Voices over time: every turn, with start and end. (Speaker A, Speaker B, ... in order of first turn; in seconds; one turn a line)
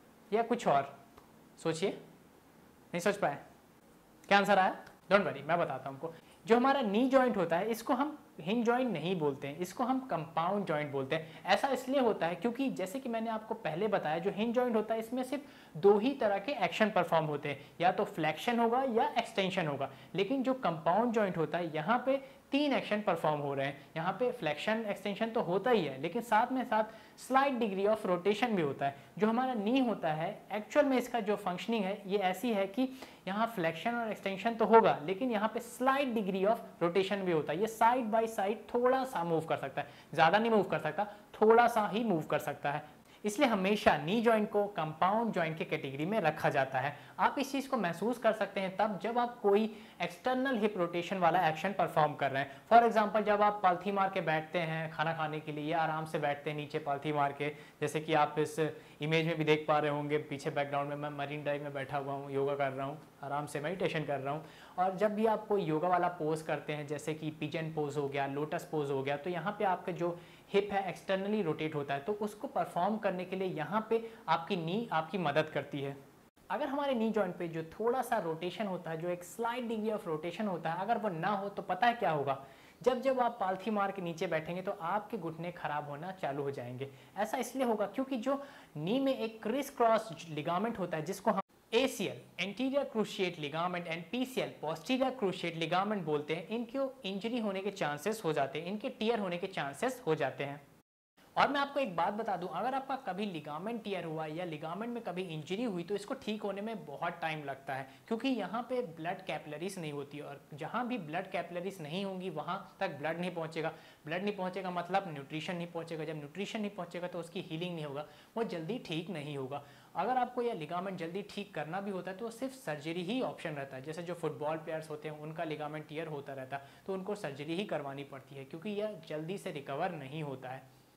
Speaker A: 0.3-0.9
Speaker A: 1.6-2.0
Speaker A: 2.9-3.4
Speaker A: 4.3-76.0
Speaker A: 76.5-100.6
Speaker A: 101.4-130.6